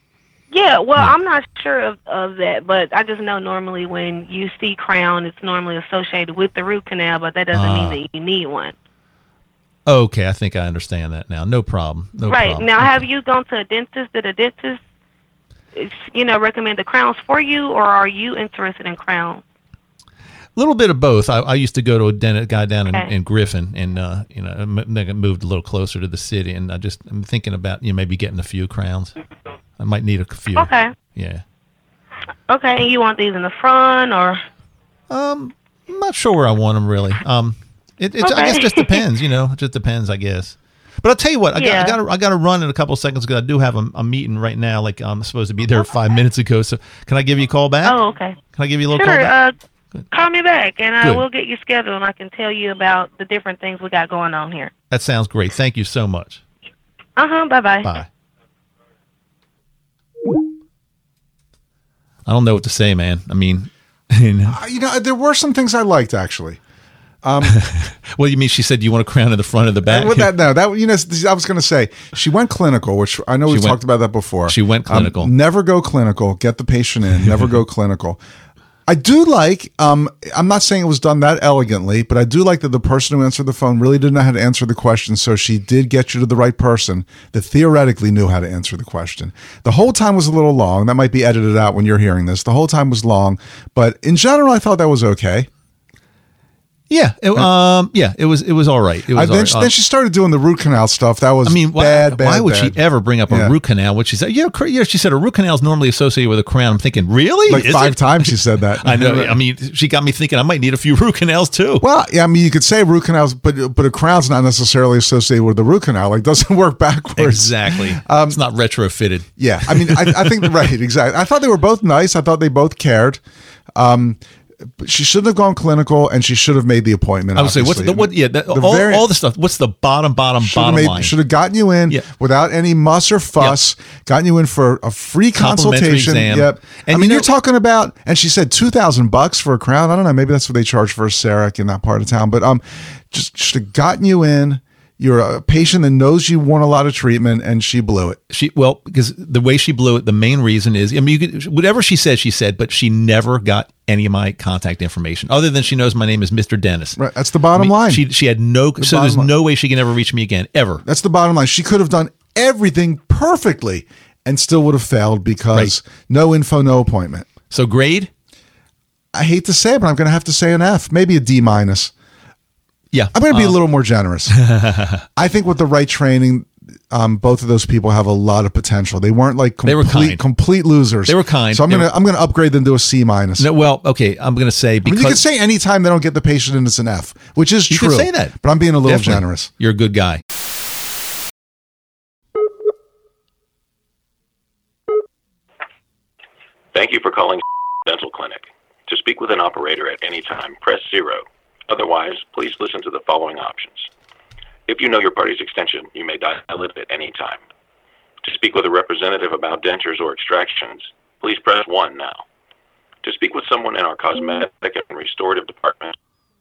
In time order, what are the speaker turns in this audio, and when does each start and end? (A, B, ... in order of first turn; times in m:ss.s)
0:00.5-0:08.8 A
0:07.5-0:08.0 B
0:09.9-0:13.1 B
0:12.3-0:14.8 A
0:15.8-0:19.4 A
0:20.6-0:29.1 B
0:29.8-0:31.4 B
0:30.6-0:30.9 A
0:32.5-0:34.4 A
0:35.1-0:48.0 B
0:38.2-0:39.0 A
0:41.6-0:42.0 A
0:47.8-0:48.4 A
0:48.5-0:49.4 B
0:48.9-0:49.6 A
0:50.1-0:54.7 A
0:51.0-0:51.3 B
0:54.9-0:56.4 B
0:57.2-0:57.9 A
1:02.3-1:04.6 B
1:04.5-1:06.6 C
1:07.2-1:07.6 C
1:07.4-1:10.3 B
1:09.9-1:18.2 C
1:13.5-1:13.8 B
1:14.4-1:15.3 B
1:18.9-1:35.5 C
1:36.9-1:39.7 B
1:39.1-1:43.5 C
1:41.4-1:51.8 B
1:47.5-1:49.4 C
1:51.8-1:58.4 C
1:57.2-2:00.7 B
1:59.4-2:03.2 C
2:03.8-2:04.2 C
2:04.8-2:09.0 C
2:07.4-2:11.2 B
2:10.4-2:28.2 C
2:15.4-2:17.3 B
2:28.3-2:37.0 B
2:37.0-2:38.0 C
2:37.6-2:40.8 B
2:38.8-2:39.3 C
2:40.8-2:47.3 C
2:47.5-2:48.1 B
2:49.1-2:51.9 C
2:52.9-2:53.6 B
2:53.1-2:54.4 C
2:54.3-2:55.0 B
2:55.2-3:03.5 C
2:59.6-3:00.2 B
3:01.1-3:01.9 B
3:03.4-3:05.2 B
3:04.8-3:09.5 C
3:07.7-3:10.2 B
3:16.7-3:23.9 D
3:24.7-3:27.4 D
3:28.2-3:32.2 D
3:33.0-3:36.0 D